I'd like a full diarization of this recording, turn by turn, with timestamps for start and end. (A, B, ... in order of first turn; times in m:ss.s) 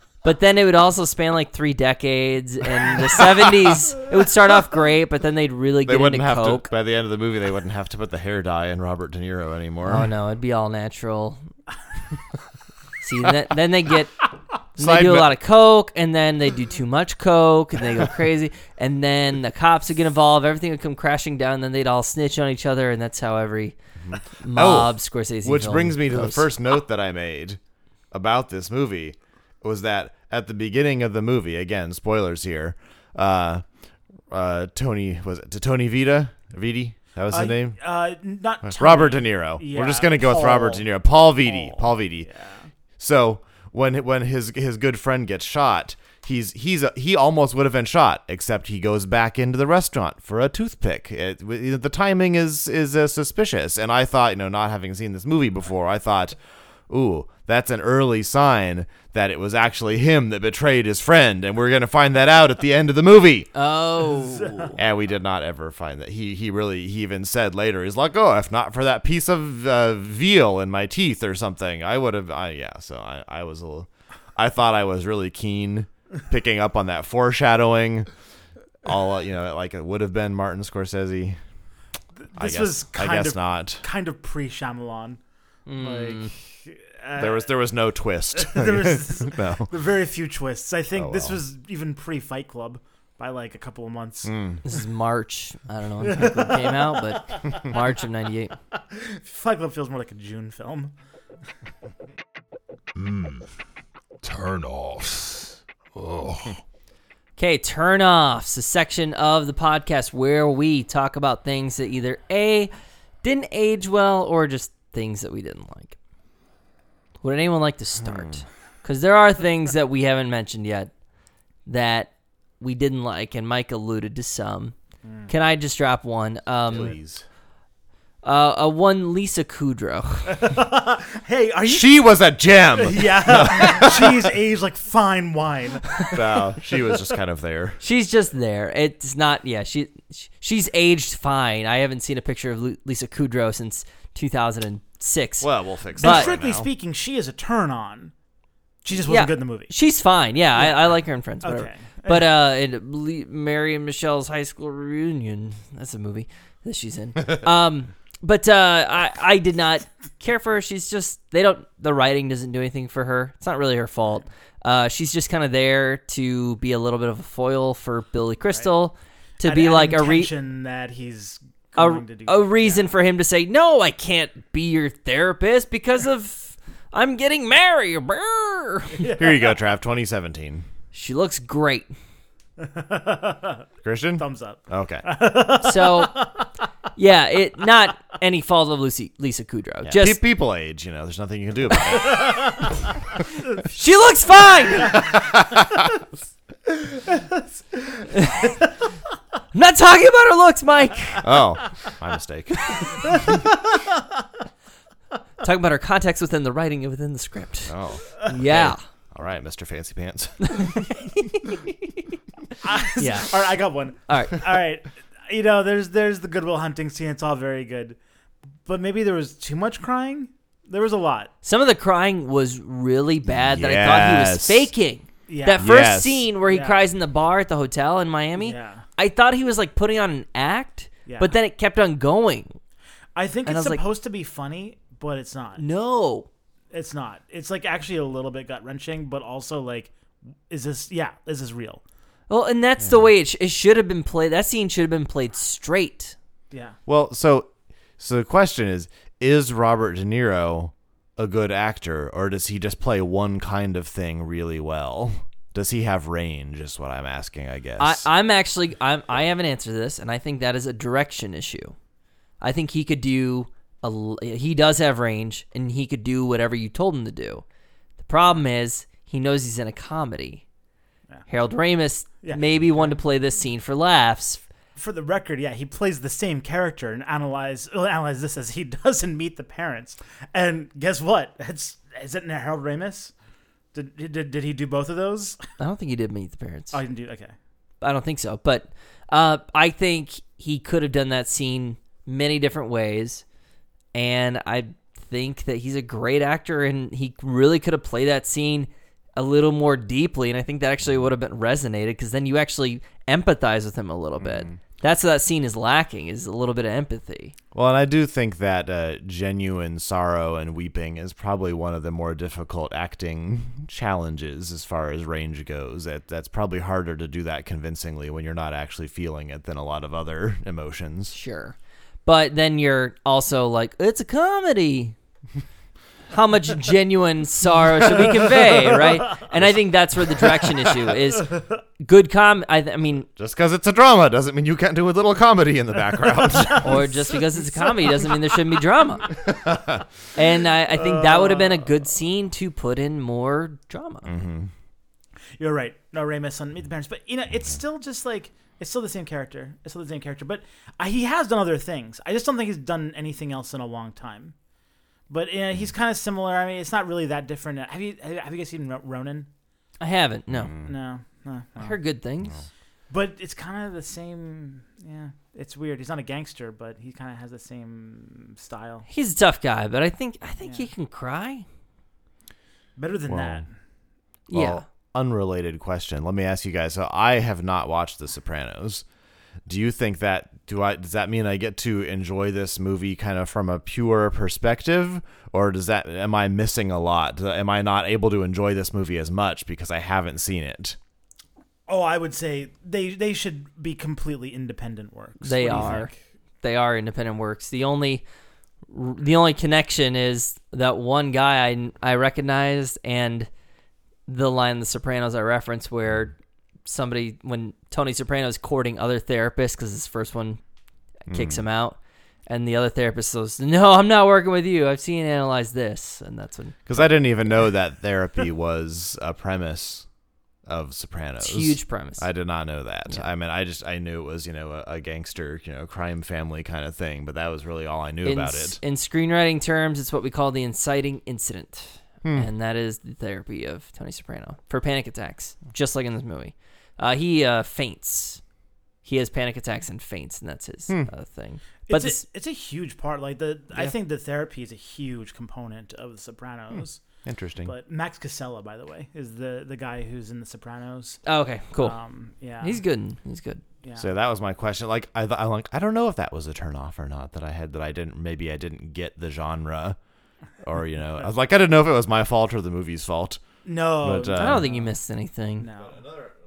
0:00.2-0:06.7 A
0:05.9-0:10.1 B
0:09.8-0:11.4 A
0:13.0-0:14.2 A
0:14.8-0:26.5 A
0:14.8-0:15.3 B
0:24.0-0:27.6 B
0:28.1-0:33.7 B
0:34.3-0:37.8 B
0:37.3-0:42.7 C
0:38.6-0:42.3 B
0:43.0-1:03.5 B
1:03.6-1:04.8 A
1:04.3-1:04.7 C
1:04.8-1:18.1 B
1:18.8-1:21.4 B
1:22.2-1:25.2 C
1:22.4-1:23.8 B
1:25.7-1:26.3 A
1:25.8-1:27.5 C
1:27.2-1:29.7 B
1:28.3-1:34.3 C
1:30.9-1:31.4 B
1:34.2-1:34.6 B
1:34.6-1:38.6 A
1:36.0-1:37.6 C
1:38.8-1:40.9 C
1:43.0-1:43.5 D
1:44.2-1:46.6 D
1:47.4-1:52.7 A
1:53.2-1:56.0 A
1:57.2-2:00.9 A
1:58.0-1:58.4 B
2:01.7-2:04.8 A
2:05.0-2:05.3 C
2:05.3-2:07.0 A
2:06.7-2:07.2 B
2:08.2-2:10.4 A
2:10.3-2:12.0 C
2:11.7-2:14.2 B
2:12.8-2:17.0 C
2:16.1-2:17.8 B
2:17.8-2:25.5 A
2:25.4-2:26.7 B
2:26.0-2:28.1 C
2:26.0-2:26.3 A
2:28.8-2:29.7 C
2:29.0-2:50.3 A
2:30.6-2:32.3 C
2:49.4-2:52.9 C
2:51.8-2:59.1 A
2:59.0-2:59.6 C
2:59.2-3:00.7 B
3:00.9-3:01.9 A
3:02.6-3:03.6 C
3:03.8-3:05.0 B
3:04.2-3:06.5 C
3:05.6-3:06.2 A
3:07.0-3:10.2 A
3:09.8-3:12.7 B
3:12.1-3:12.7 C
3:13.6-3:15.0 A
3:14.9-3:15.8 B
3:16.9-3:18.1 C
3:18.1-3:18.5 A
3:19.5-3:21.2 A
3:21.2-3:23.1 B
3:23.1-3:23.8 C
3:25.4-3:28.8 A
3:27.7-3:31.0 B
3:30.5-3:31.7 A
3:32.6-3:38.0 C
3:33.0-3:33.3 A
3:34.1-3:34.4 A
3:38.7-3:41.3 C
3:41.4-3:52.6 A
3:43.3-3:44.7 B
3:45.3-3:45.7 C
3:45.6-3:46.2 B
3:46.5-3:46.8 C
3:48.4-3:48.9 C
3:51.1-3:51.3 C
3:53.2-3:55.6 C
3:53.5-3:53.8 A
3:55.6-3:56.3 A
3:56.7-3:59.9 C
4:00.5-4:01.8 C
4:02.3-4:06.2 A
4:06.5-4:06.8 C
4:06.9-4:18.1 B
4:17.8-4:21.8 A
4:22.4-4:27.4 A
4:28.0-4:30.4 A
4:31.3-4:34.4 A
4:32.2-4:33.0 C
4:34.8-4:43.1 C
4:43.7-4:45.4 C
4:45.6-4:46.8 A
4:46.7-4:47.3 C
4:47.8-4:53.2 A
4:54.0-5:07.4 A
5:04.2-5:04.6 B
5:07.5-5:21.2 B
5:21.1-5:25.0 A
5:26.1-5:33.1 A
5:31.2-5:31.6 C
5:33.1-5:36.9 B
5:36.2-5:38.3 C
5:36.6-5:39.2 A
5:39.2-5:39.9 B
5:40.2-5:44.1 A
5:40.8-5:41.7 C
5:44.0-5:44.5 B
5:45.4-5:54.4 C
5:55.1-5:59.3 C
5:59.8-6:00.5 A
6:00.3-6:00.7 B
6:00.6-6:01.8 C
6:01.6-6:02.4 A
6:02.9-6:08.9 C
6:08.9-6:11.4 A
6:10.4-6:10.7 C
6:12.8-6:13.5 C
6:13.1-6:13.4 B
6:14.3-6:14.6 A
6:14.3-6:18.9 B
6:19.4-6:30.8 B
6:31.7-6:35.9 C
6:35.2-6:38.1 A
6:38.7-6:43.3 A
6:44.1-6:50.4 A
6:51.1-6:56.9 A
6:51.1-6:51.4 B
6:56.7-6:59.9 B
7:00.5-7:08.6 B
7:01.2-7:02.1 A
7:08.0-7:18.2 A
7:18.8-7:22.0 A
7:21.7-7:26.8 C
7:27.0-7:27.5 B
7:27.4-7:31.0 C
7:31.1-7:31.8 A
7:31.6-7:32.6 C
7:32.4-7:33.4 A
7:33.8-7:39.8 B
7:40.4-7:43.2 B
7:43.4-7:44.7 C
7:43.8-7:44.5 B
7:44.2-7:45.5 A
7:45.4-7:45.8 C